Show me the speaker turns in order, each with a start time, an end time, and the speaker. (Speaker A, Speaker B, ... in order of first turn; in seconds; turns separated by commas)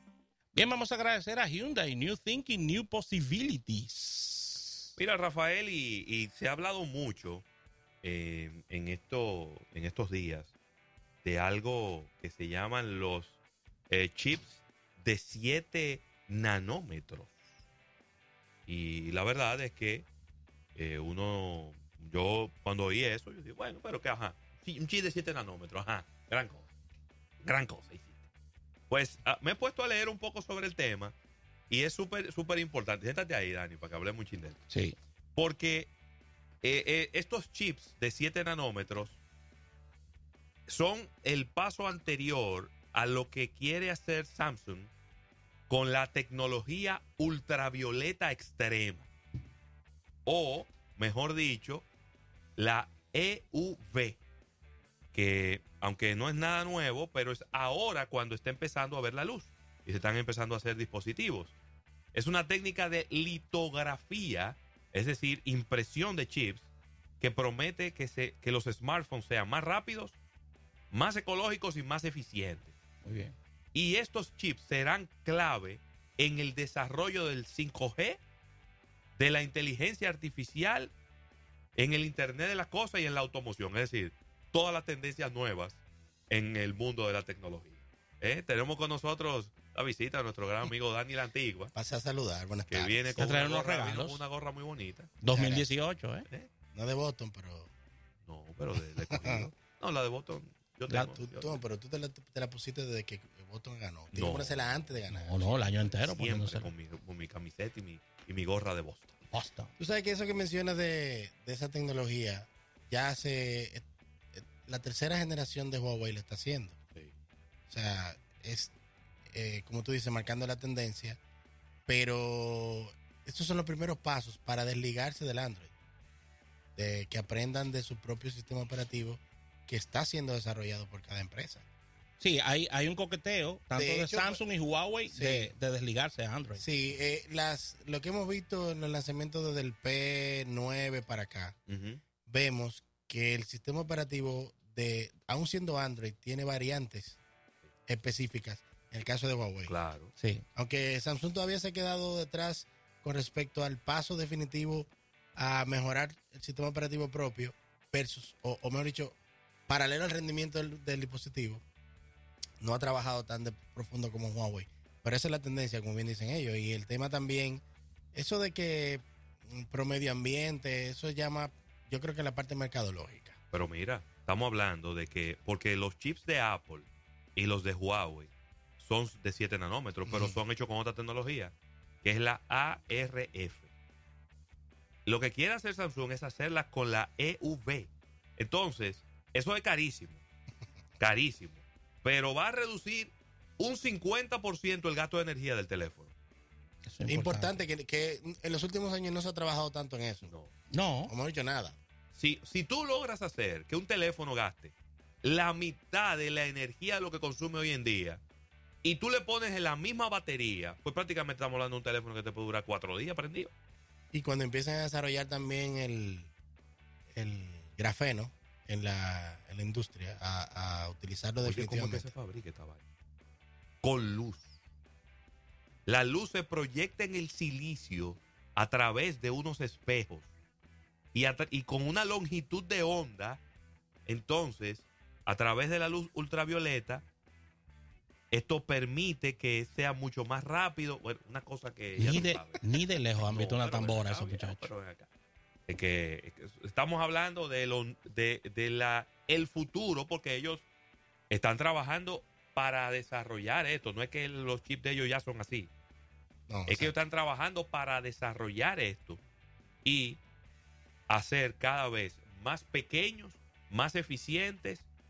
Speaker A: 0.5-4.9, Speaker B: 5.0-7.5, Speaker B: 8.0-10.5, Speaker B: 11.2-13.4, Speaker B: 13.9-17.3, Speaker B: 18.7-20.1, Speaker B: 20.7-26.7, Speaker B: 27.4-28.2, Speaker B: 28.9-31.1, Speaker B: 31.7-34.6, Speaker A: 34.7-35.0, Speaker B: 35.3-35.9, Speaker B: 36.6-39.2, Speaker B: 40.7-44.9, Speaker B: 45.7-49.1, Speaker B: 50.2-51.9, Speaker B: 52.6-54.2, Speaker B: 55.1-61.5, Speaker B: 62.1-66.7, Speaker B: 67.2-70.2, Speaker B: 70.9-72.8, Speaker A: 73.0-73.3, Speaker B: 73.7-78.2, Speaker B: 79.2-80.9, Speaker B: 81.8-91.7, Speaker C: 91.7-93.2, Speaker B: 92.7-95.1, Speaker A: 93.2-94.2, Speaker A: 95.2-96.2, Speaker C: 95.3-95.8, Speaker C: 96.7-97.7, Speaker B: 98.2-101.6, Speaker C: 99.0-99.5, Speaker A: 100.9-101.1, Speaker C: 101.0-105.8, Speaker B: 104.1-104.9, Speaker A: 105.1-106.7, Speaker B: 105.8-109.2, Speaker A: 109.3-109.8, Speaker C: 109.8-116.8, Speaker C: 117.7-118.7, Speaker C: 119.3-121.2, Speaker C: 121.9-125.7, Speaker C: 126.8-131.7, Speaker A: 132.2-136.6, Speaker C: 133.8-134.4, Speaker C: 135.1-135.5, Speaker C: 136.6-141.6, Speaker B: 141.7-142.0, Speaker C: 142.2-147.2, Speaker C: 147.9-149.8, Speaker B: 149.7-150.2, Speaker A: 150.2-150.4, Speaker C: 150.5-159.2, Speaker C: 159.7-161.6, Speaker C: 162.6-173.4, Speaker B: 173.5-183.7, Speaker C: 180.1-180.4, Speaker B: 185.1-190.2, Speaker B: 191.0-196.1, Speaker A: 196.8-197.6, Speaker C: 197.0-200.3, Speaker B: 200.2-200.5, Speaker A: 200.7-201.1, Speaker C: 201.1-201.8, Speaker B: 202.1-208.2, Speaker B: 208.8-213.5, Speaker C: 214.1-216.3, Speaker C: 217.1-222.1, Speaker B: 221.4-222.8, Speaker B: 223.8-224.5, Speaker B: 225.8-230.3, Speaker B: 231.1-233.4, Speaker B: 234.1-237.1, Speaker B: 238.3-242.7, Speaker A: 242.0-244.7, Speaker B: 243.2-245.1, Speaker B: 245.7-250.7, Speaker B: 251.3-255.7, Speaker C: 256.5-256.9, Speaker B: 256.7-259.2, Speaker B: 259.8-260.2, Speaker B: 261.1-264.9